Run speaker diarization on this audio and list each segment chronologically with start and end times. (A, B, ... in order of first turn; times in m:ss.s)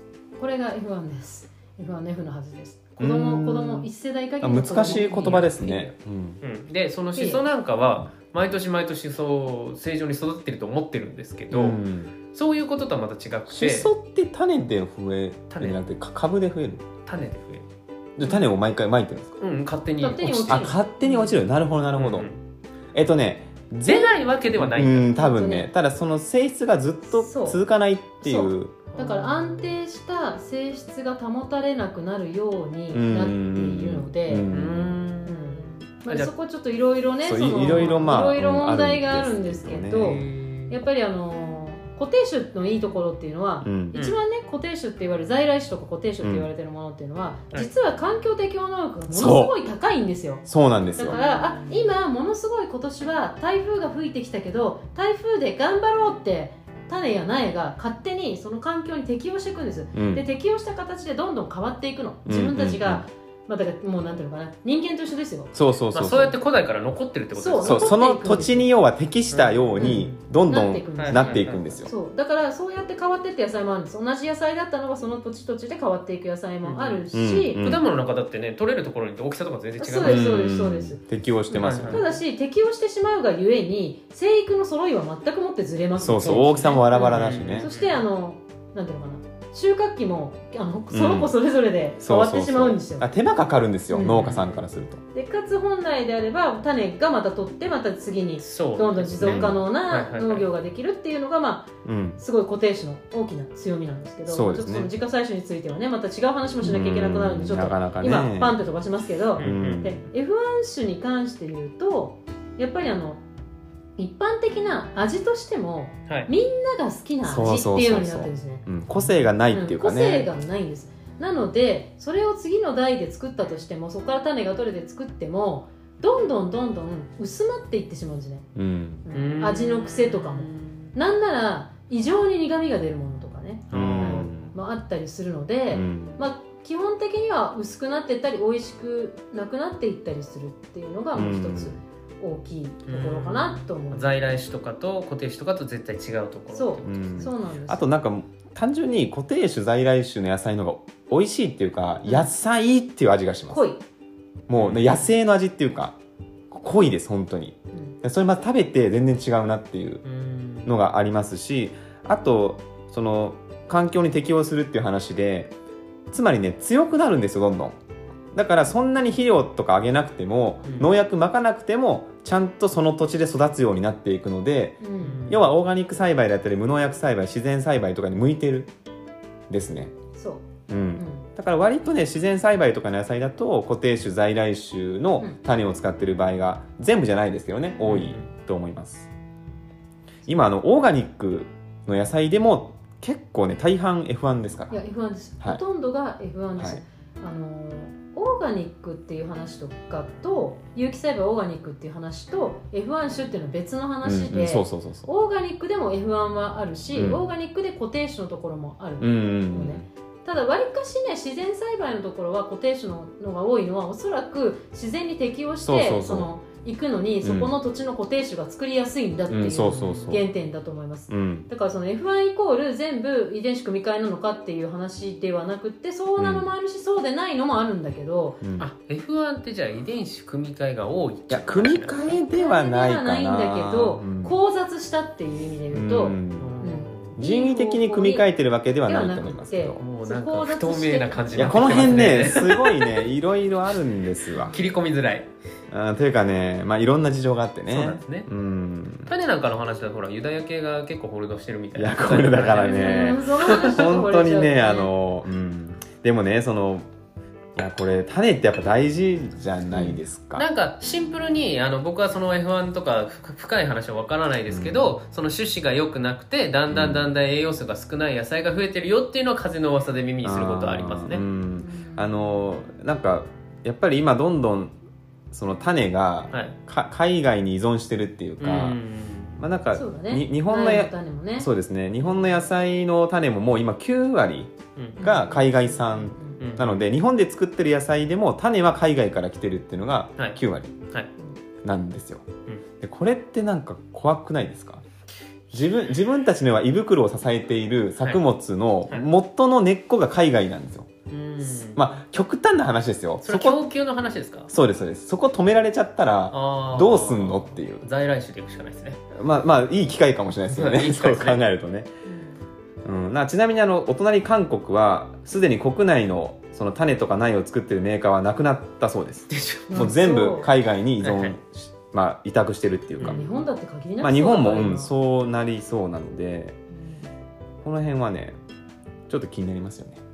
0:00.4-0:05.4 A
0:03.0-0:03.9 B
0:04.4-0:06.4 B
0:04.8-0:11.8 C
0:07.1-0:07.4 A
0:11.5-0:12.1 B
0:12.3-0:13.9 C
0:13.5-0:16.9 B
0:15.5-0:15.8 C
0:17.0-0:17.6 C
0:18.2-0:19.4 B
0:19.4-0:20.7 C
0:20.0-0:21.4 A
0:20.5-0:22.3 B
0:21.9-0:22.4 C
0:22.9-0:28.7 B
0:23.8-0:25.1 C
0:25.0-0:25.7 A
0:27.1-0:27.6 A
0:28.2-0:34.5 A
0:28.9-0:29.7 C
0:32.9-0:34.9 B
0:34.5-0:36.3 C
0:35.2-0:50.4 A
0:37.2-0:40.2 B
0:37.6-0:38.1 C
0:40.0-0:40.8 C
0:43.6-0:44.0 B
0:43.9-0:44.2 C
0:46.2-0:46.5 B
0:49.1-0:49.6 B
0:50.5-0:51.2 B
0:51.0-1:05.5 A
0:59.9-1:00.2 B
1:02.2-1:03.0 B
1:05.5-1:06.3 B
1:05.9-1:08.0 C
1:07.3-1:08.7 A
1:07.6-1:11.9 B
1:09.3-1:10.2 C
1:09.8-1:17.6 A
1:11.0-1:11.6 C
1:16.6-1:17.0 C
1:17.1-1:17.8 B
1:17.6-1:20.3 C
1:19.8-1:33.0 A
1:20.0-1:22.0 B
1:21.5-1:22.0 C
1:26.0-1:27.7 B
1:26.0-1:28.0 C
1:30.9-1:31.3 B
1:32.0-1:35.0 B
1:33.9-1:34.4 A
1:34.0-1:34.6 C
1:35.1-1:53.2 A
1:38.4-1:40.5 C
1:39.2-1:39.6 B
1:41.8-1:42.2 B
1:44.3-1:44.9 B
1:46.6-1:48.6 B
1:49.4-1:50.0 C
1:49.4-1:50.0 B
1:54.0-1:58.6 A
1:57.2-2:00.3 B
1:59.5-2:08.5 A
2:08.5-2:09.1 B
2:09.0-2:24.4 A
2:09.1-2:10.9 C
2:13.7-2:14.3 C
2:13.7-2:14.5 B
2:15.7-2:16.2 B
2:21.1-2:21.8 B
2:22.9-2:27.3 C
2:26.5-2:27.8 A
2:26.8-2:33.6 B
2:33.5-2:33.8 A
2:34.5-2:36.0 B
2:34.6-2:34.9 C
2:36.5-2:40.0 B
2:40.0-2:40.7 C
2:40.6-2:45.5 B
2:46.1-2:47.8 B
2:48.3-2:58.7 B
2:50.6-2:50.9 C
2:54.8-2:55.3 A
2:55.0-2:55.5 C
2:59.5-2:59.9 B
3:00.1-3:00.4 A
3:00.7-3:09.1 B
3:01.0-3:01.2 A
3:07.8-3:08.2 C
3:10.3-3:14.8 B
3:14.7-3:48.4 A
3:24.0-3:25.1 B
3:26.9-3:27.2 B
3:29.0-3:29.8 B
3:35.6-3:36.3 B
3:37.2-3:37.5 B
3:39.3-3:40.3 B
3:39.6-3:40.2 C
3:41.1-3:41.5 B
3:46.2-3:46.5 B
3:48.4-3:48.7 B
3:48.6-3:52.1 C
3:51.3-3:54.4 B
3:52.2-3:58.3 A
3:55.7-3:56.6 B
3:56.4-3:57.2 C
3:57.2-3:59.8 B
3:58.8-4:02.1 A
3:59.8-4:03.0 C
4:01.3-4:04.6 B
4:04.3-4:05.3 C
4:05.7-4:09.1 B
4:07.7-4:08.3 C
4:09.1-4:13.6 C
4:11.7-4:16.8 B
4:12.5-4:14.9 A
4:17.6-4:20.4 B
4:20.4-4:31.2 C
4:24.5-4:25.0 B
4:26.7-4:27.1 B
4:30.2-4:34.7 B
4:31.6-4:32.3 A
4:35.3-4:38.8 B
4:38.4-4:39.4 C
4:39.4-4:50.8 B
4:39.7-4:41.5 A
4:44.8-4:45.0 C
4:45.0-4:46.4 A
4:46.4-4:46.8 C
4:51.6-4:52.2 B
4:52.8-4:54.8 B
4:55.5-5:00.9 B
5:01.1-5:01.8 C
5:01.5-5:03.6 B
5:03.2-5:04.5 C
5:04.5-5:07.8 B
5:06.3-5:09.0 C
5:09.1-5:11.9 B
5:10.5-5:11.4 C
5:12.0-5:12.3 A
5:12.8-5:23.3 B
5:19.3-5:19.8 C
5:19.7-5:20.5 A
5:21.0-5:21.3 C
5:23.0-5:23.4 C
5:23.0-5:24.9 A
5:24.0-5:26.6 B
5:26.7-5:27.1 A
5:27.6-5:28.4 B
5:29.1-5:30.0 B